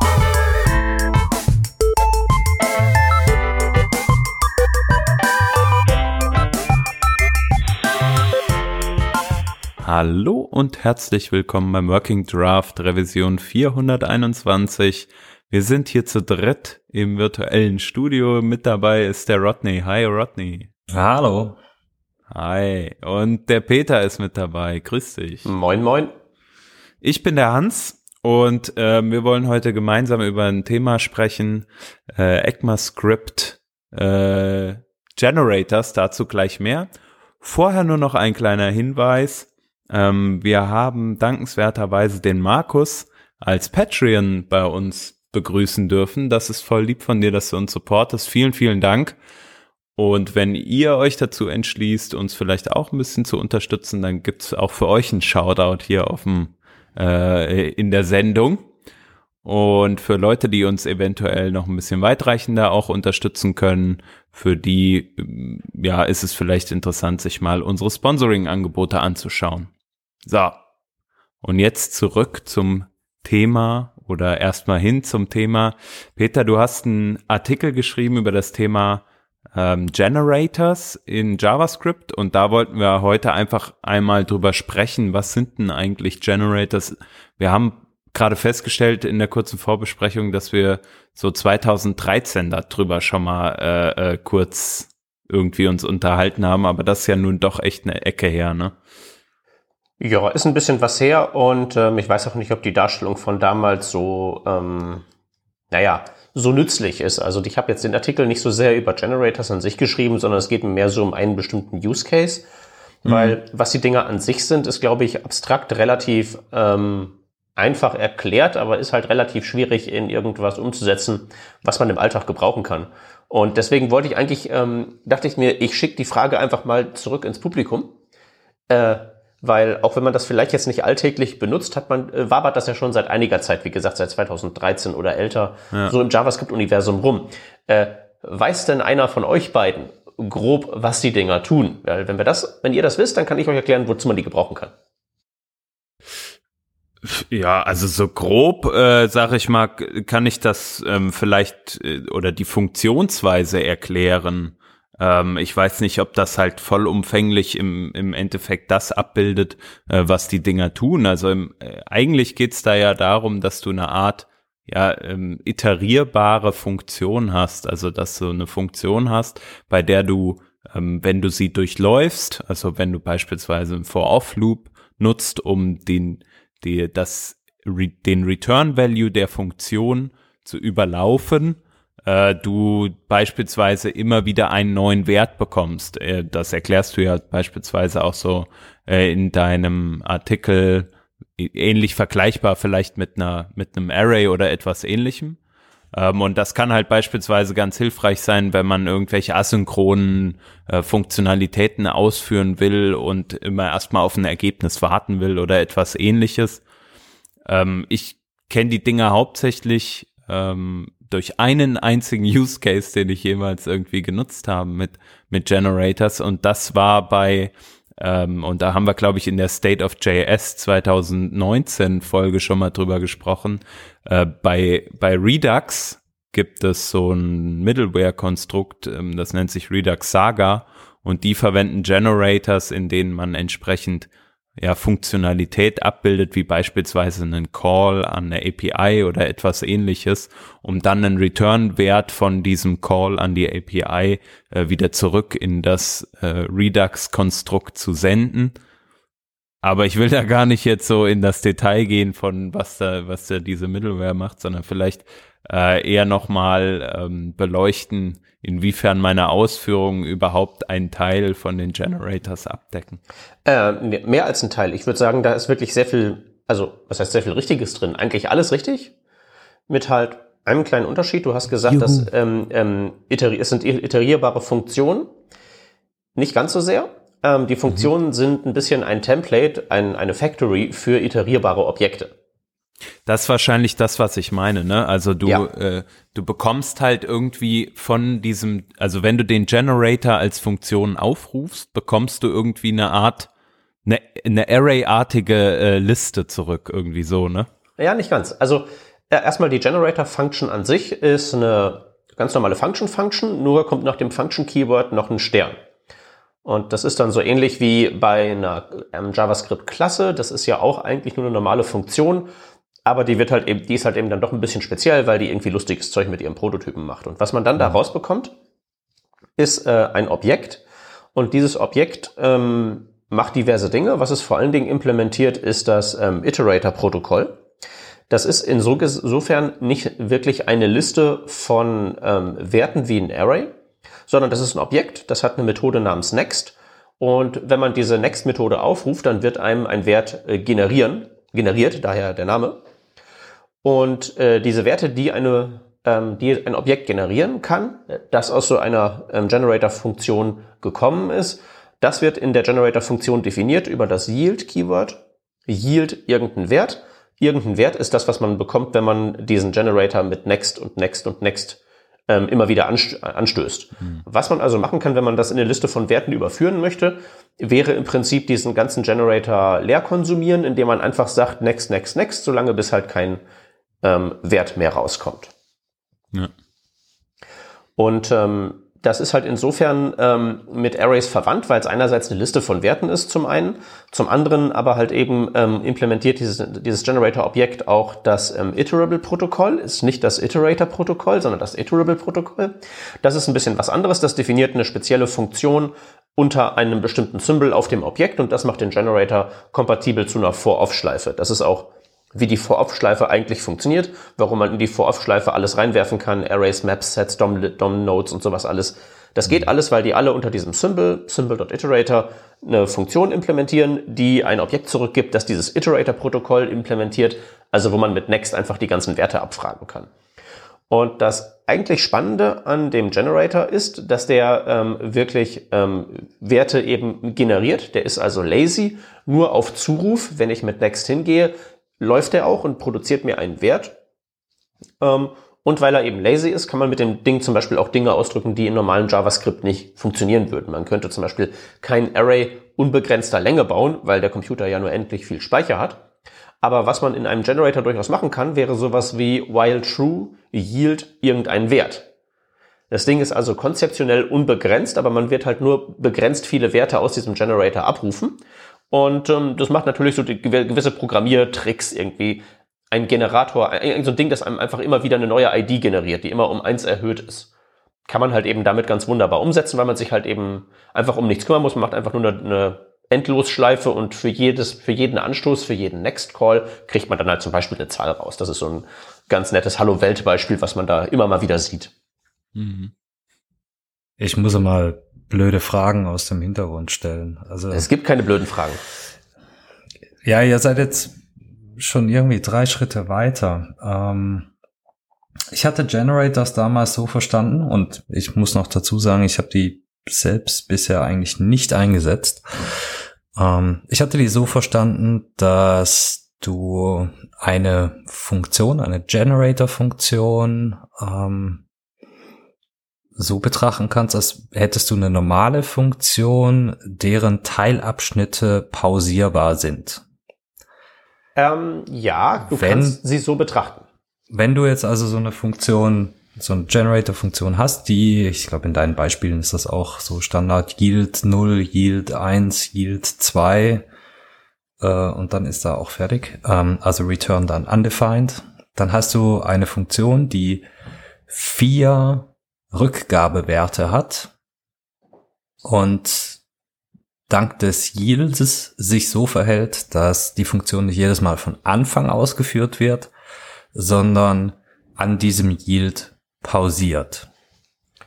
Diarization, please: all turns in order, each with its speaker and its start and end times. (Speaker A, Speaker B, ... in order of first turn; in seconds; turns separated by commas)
Speaker A: 9.8-20.7, Speaker B: 20.9-21.6, Speaker A: 22.3-25.5, Speaker C: 25.4-26.1, Speaker A: 27.0-36.9, Speaker A: 37.4-49.1, Speaker A: 50.0-58.7, Speaker A: 59.4-69.7, Speaker A: 70.2-70.6, Speaker A: 71.4-79.0, Speaker A: 79.5-98.7, Speaker C: 100.0-105.0, Speaker C: 105.7-112.5, Speaker C: 113.0-127.9, Speaker A: 113.0-113.4, Speaker C: 128.7-144.7, Speaker A: 147.0-195.4, Speaker A: 195.9-206.6, Speaker A: 207.4-248.5, Speaker A: 249.6-263.0, Speaker C: 263.4-268.9, Speaker C: 269.7-275.1, Speaker B: 271.8-272.1, Speaker C: 276.1-282.1, Speaker A: 283.1-293.3, Speaker A: 293.8-297.5, Speaker C: 297.8-305.6, Speaker C: 306.4-312.3, Speaker C: 312.8-318.3, Speaker C: 319.4-320.6, Speaker C: 321.1-327.4, Speaker C: 328.1-333.5, Speaker C: 334.1-342.6, Speaker C: 343.6-373.2, Speaker C: 373.8-375.3, Speaker C: 377.8-419.9, Speaker C: 420.7-433.7, Speaker C: 434.8-445.8, Speaker C: 446.4-451.9, Speaker C: 452.7-458.2, Speaker C: 458.7-467.3, Speaker C: 467.9-481.7, Speaker A: 482.3-482.7, Speaker B: 484.0-487.7, Speaker C: 487.5-488.6, Speaker B: 490.0-490.9, Speaker B: 491.6-494.3, Speaker B: 495.3-511.4, Speaker B: 513.0-519.8, Speaker C: 521.1-523.6, Speaker B: 522.3-522.8, Speaker B: 524.1-533.6, Speaker B: 534.6-540.5, Speaker B: 541.1-544.1, Speaker B: 545.4-546.2, Speaker B: 547.1-552.9, Speaker B: 553.5-557.1